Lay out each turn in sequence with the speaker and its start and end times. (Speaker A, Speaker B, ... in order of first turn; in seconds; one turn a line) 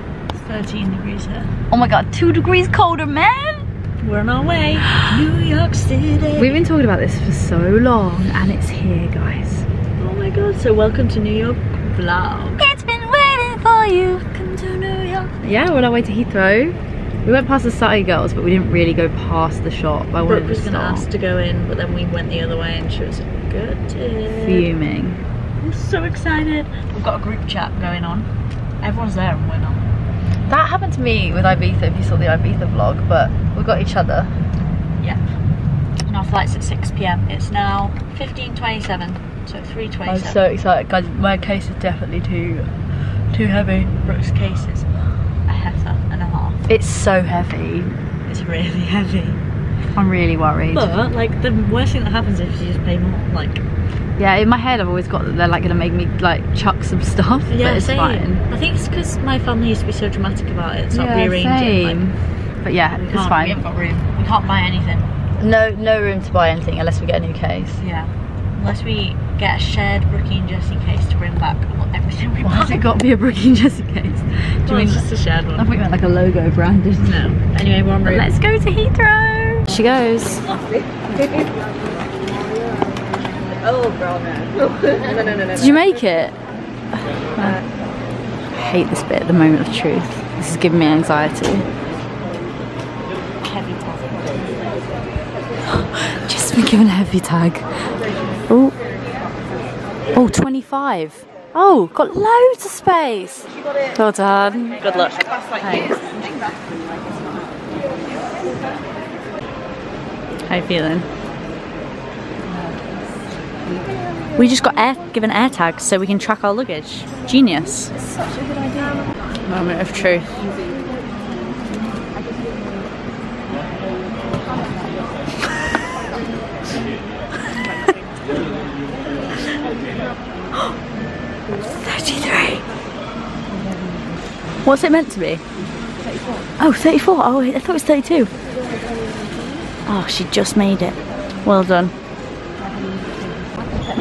Speaker A: 0.4-1.6
Speaker B: 1.7-3.7
Speaker A: 4.0-6.6
Speaker B: 6.4-9.7
Speaker A: 10.0-12.7
Speaker B: 12.6-14.2
Speaker A: 14.1-15.3
Speaker B: 15.4-21.1
Speaker A: 20.3-24.7
Speaker B: 24.4-25.2
Speaker A: 25.6-28.3
Speaker A: 28.8-29.9
Speaker B: 30.5-34.4
Speaker A: 36.1-40.4
Speaker B: 40.1-44.0
Speaker A: 44.0-44.9
Speaker A: 45.5-46.6
Speaker B: 46.7-48.0
Speaker A: 48.3-49.4
Speaker B: 50.0-51.0
Speaker A: 50.7-53.6
Speaker B: 54.2-58.4
Speaker A: 57.5-62.0
Speaker B: 60.9-63.9
Speaker A: 63.1-65.1
Speaker B: 65.4-67.8
Speaker A: 67.8-72.8
Speaker B: 72.4-77.2
Speaker A: 74.7-75.7
Speaker A: 77.0-78.3
Speaker B: 78.0-80.5
Speaker A: 79.3-79.7
Speaker A: 81.2-81.5
Speaker A: 83.6-85.8
Speaker B: 85.6-86.4
Speaker B: 88.5-91.7
Speaker A: 93.4-94.6
Speaker B: 95.7-97.7
Speaker B: 98.5-98.8
Speaker B: 100.1-104.8
Speaker A: 104.8-105.8
Speaker B: 105.6-106.0
Speaker A: 110.5-111.1
Speaker B: 112.5-112.9
Speaker A: 114.4-117.9
Speaker B: 118.0-118.9
Speaker A: 119.5-120.3
Speaker B: 120.0-120.2
Speaker A: 131.6-132.6
Speaker B: 133.5-134.1
Speaker A: 134.7-135.4
Speaker B: 136.0-136.5
Speaker A: 136.6-138.3
Speaker A: 139.9-141.9
Speaker B: 142.7-143.2